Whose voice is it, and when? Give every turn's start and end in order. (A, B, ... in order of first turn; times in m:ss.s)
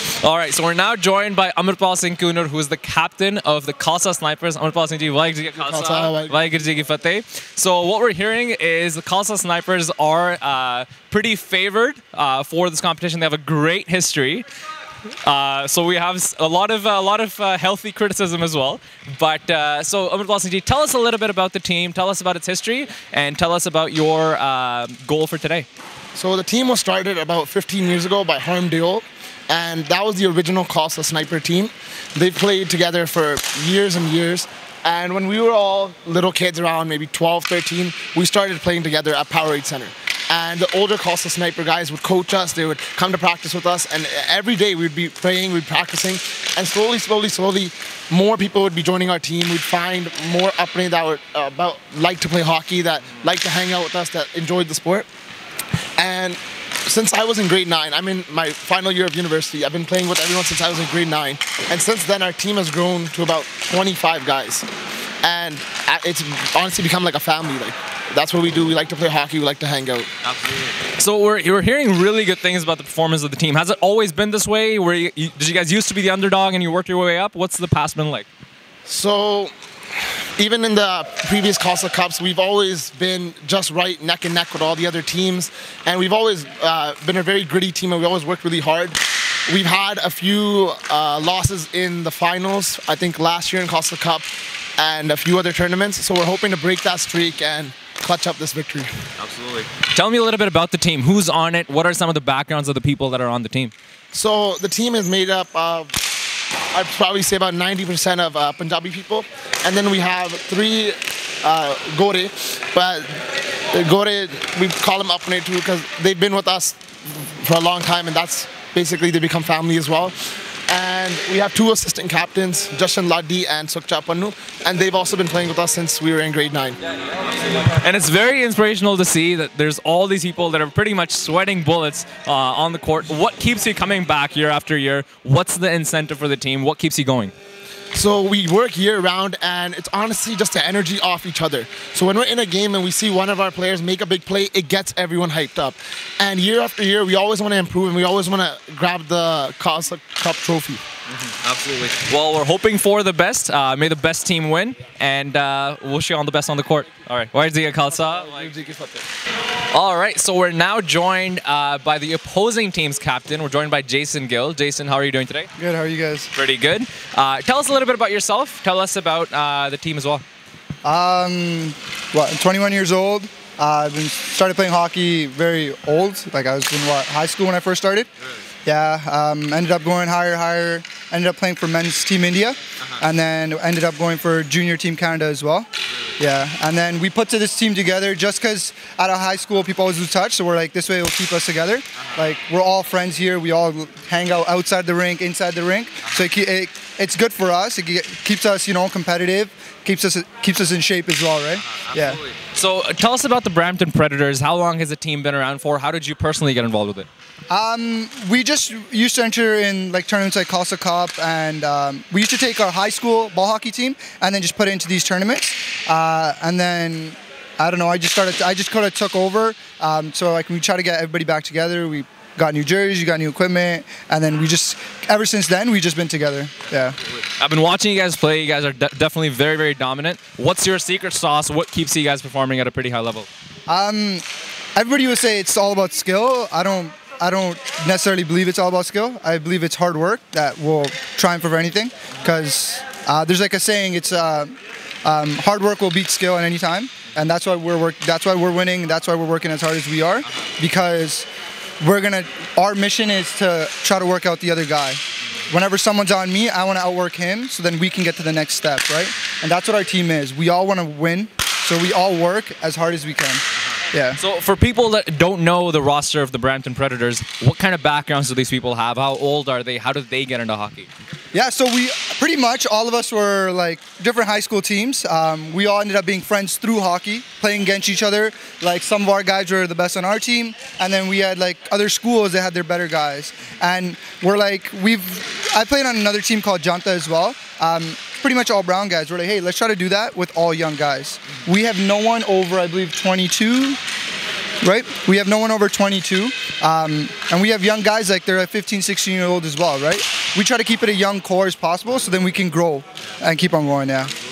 0:00.2-0:14.4 A
0:05.6-0:06.4 B
0:15.2-0:25.7 A
0:26.1-0:55.1 B
0:56.0-1:04.7 B
1:05.2-1:10.1 B
1:10.2-1:18.3 A
1:18.8-1:19.5 B
1:20.4-1:38.9 B
1:39.2-1:43.7 A
1:44.1-1:45.9 B
1:46.7-1:53.2 B
1:53.7-2:00.1 B
2:00.7-2:06.8 B
2:07.6-2:17.3 A
2:17.9-2:30.8 B
2:31.1-2:38.9 A
2:39.7-2:45.5 A
2:45.6-2:46.3 C
2:46.3-2:50.2 A
2:50.8-2:58.1 C
2:58.6-3:22.2 C
3:12.0-3:12.2 A
3:21.7-3:27.1 A
3:27.5-3:47.0 C
3:47.4-3:53.3 A
3:53.7-4:11.3 C
4:11.8-4:24.2 C
4:24.2-4:30.9 A
4:31.3-4:53.8 C
4:54.6-5:04.1 C